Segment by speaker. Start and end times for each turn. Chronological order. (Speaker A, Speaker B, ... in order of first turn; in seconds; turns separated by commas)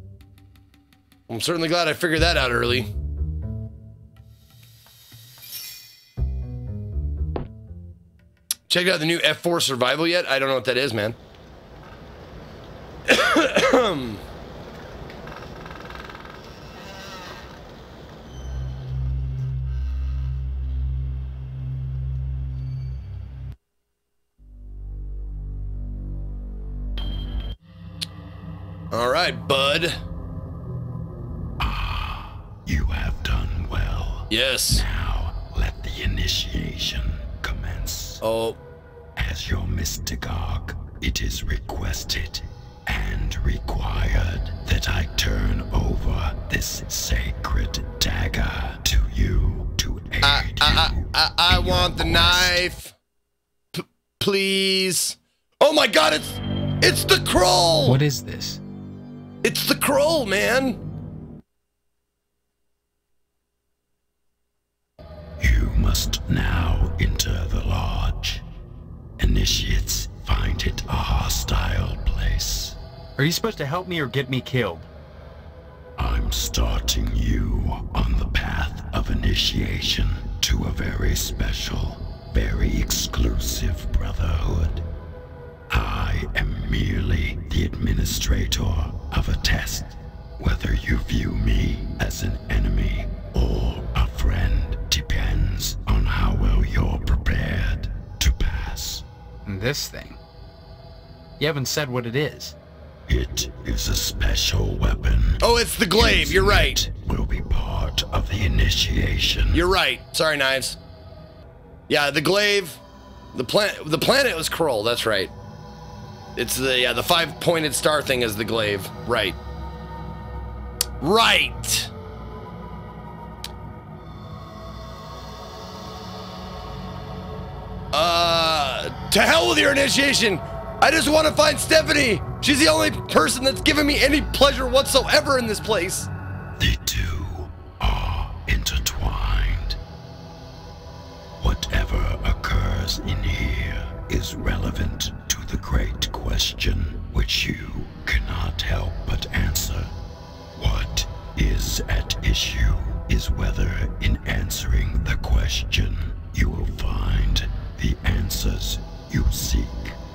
Speaker A: 1.3-2.9, Speaker A: 8.7-11.2, Speaker A: 13.1-14.2, Speaker A: 28.9-30.0, Speaker B: 31.6-38.2, Speaker A: 34.3-34.8, Speaker A: 38.2-38.6, Speaker B: 39.2-52.5, Speaker A: 50.2-53.0, Speaker A: 53.7-58.0, Speaker C: 57.9-58.6, Speaker A: 59.4-60.8, Speaker B: 65.4-68.5, Speaker B: 69.2-72.8, Speaker C: 73.2-74.9, Speaker B: 76.0-84.8, Speaker B: 85.7-99.0, Speaker C: 99.5-100.2, Speaker C: 101.4-102.6, Speaker B: 103.1-109.6, Speaker A: 105.4-106.8, Speaker A: 109.5-110.8, Speaker A: 111.9-112.8, Speaker A: 113.3-115.3, Speaker A: 116.4-119.4, Speaker A: 121.0-121.9, Speaker A: 127.9-136.1, Speaker B: 136.6-139.8, Speaker B: 141.4-149.9, Speaker B: 150.6-160.0